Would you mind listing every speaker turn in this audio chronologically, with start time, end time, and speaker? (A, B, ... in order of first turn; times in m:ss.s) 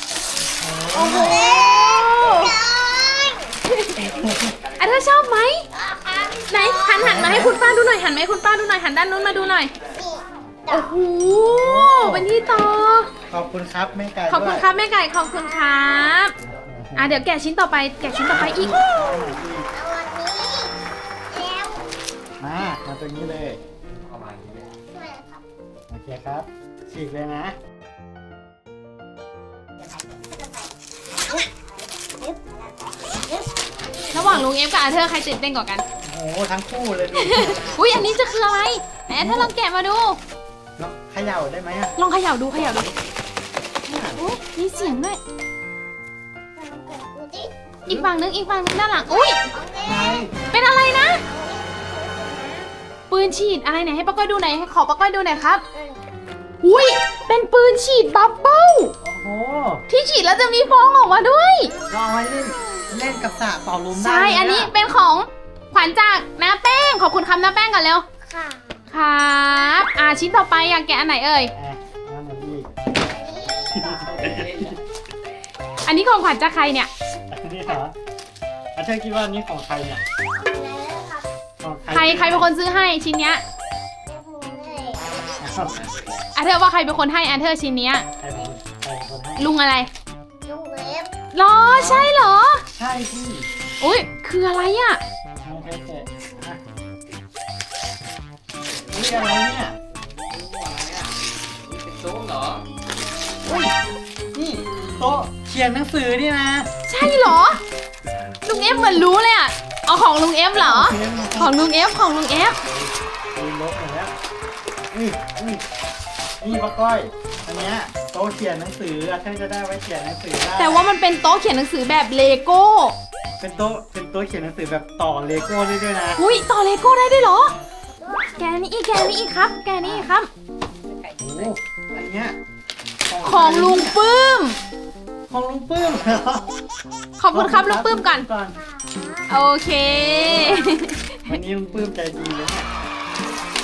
0:00.6-0:01.4 A
0:00.9-0:02.6 B
0:01.3-0:03.6 C
0:03.7-0:04.2 B
0:04.2-0:04.6 A
0:04.8-0:05.7 B
0:05.7-0:07.6 C
0:06.5-0:09.7 B
0:07.0-0:07.6 A
0:09.9-0:11.0 C
0:10.7-0:13.1 B
0:11.3-0:12.3 A
0:13.3-0:14.7 A
0:14.3-0:16.3 B
0:15.2-0:16.2 C
0:16.4-0:17.2 A
0:17.0-0:18.7 B
0:18.3-0:19.7 A
0:19.7-0:20.7 C
0:21.3-0:21.9 C
0:22.4-0:23.6 A
0:24.1-0:24.5 D
0:24.5-0:25.4 C
0:25.9-0:27.6 A
0:29.8-0:34.2 C
0:34.1-0:34.4 A
0:34.1-0:35.8 B
0:36.0-0:37.7 A
0:37.2-0:40.2 B
0:39.2-0:39.5 A
0:40.8-0:41.9 A
0:42.0-0:42.9 B
0:43.8-0:44.2 A
0:44.2-0:45.2 B
0:46.6-0:47.5 C
0:47.9-0:49.4 B
0:48.9-0:50.4 C
0:49.8-0:50.3 A
0:50.5-0:51.2 B
0:51.2-0:52.7 C
0:53.1-0:55.6 B
0:55.7-0:56.0 C
0:56.6-0:58.9 B
0:59.0-0:59.8 A
0:59.9-1:01.7 B
1:01.9-1:04.7 A
1:02.9-1:03.2 C
1:03.9-1:08.1 B
1:08.2-1:08.9 C
1:08.9-1:11.5 B
1:11.6-1:12.7 A
1:12.9-1:14.6 C
1:13.7-1:14.8 A
1:14.3-1:14.7 D
1:15.8-1:16.9 B
1:17.3-1:17.9 A
1:18.8-1:20.0 A
1:20.4-1:21.3 C
1:21.6-1:22.5 A
1:21.9-1:23.4 B
1:24.1-1:25.4 C
1:25.4-1:25.8 A
1:25.6-1:26.2 D
1:26.4-1:28.1 B
1:28.2-1:29.5 A
1:29.4-1:29.9 B
1:30.4-1:31.2 C
1:31.3-1:32.6 B
1:31.7-1:32.1 A
1:32.8-1:33.5 A
1:33.8-1:35.0 B
1:35.4-1:36.6 A
1:38.9-1:39.8 A
1:40.2-1:42.7 D
1:43.4-1:43.7 A
1:44.3-1:46.7 A
1:46.9-1:47.6 B
1:48.4-1:52.6 B
1:50.6-1:54.1 A
1:54.9-1:55.6 A
1:56.4-2:00.8 A
2:00.6-2:03.0 B
2:03.4-2:06.2 A
2:06.2-2:07.6 B
2:08.0-2:08.4 C
2:08.4-2:10.3 B
2:09.8-2:10.1 A
2:11.2-2:12.4 A
2:13.1-2:14.0 A
2:13.2-2:14.6 B
2:15.3-2:16.5 A
2:17.2-2:18.3 B
2:17.3-2:18.6 A
2:18.5-2:19.5 C
2:19.3-2:21.4 B
2:20.0-2:20.6 A
2:20.1-2:20.8 C
2:21.3-2:22.7 A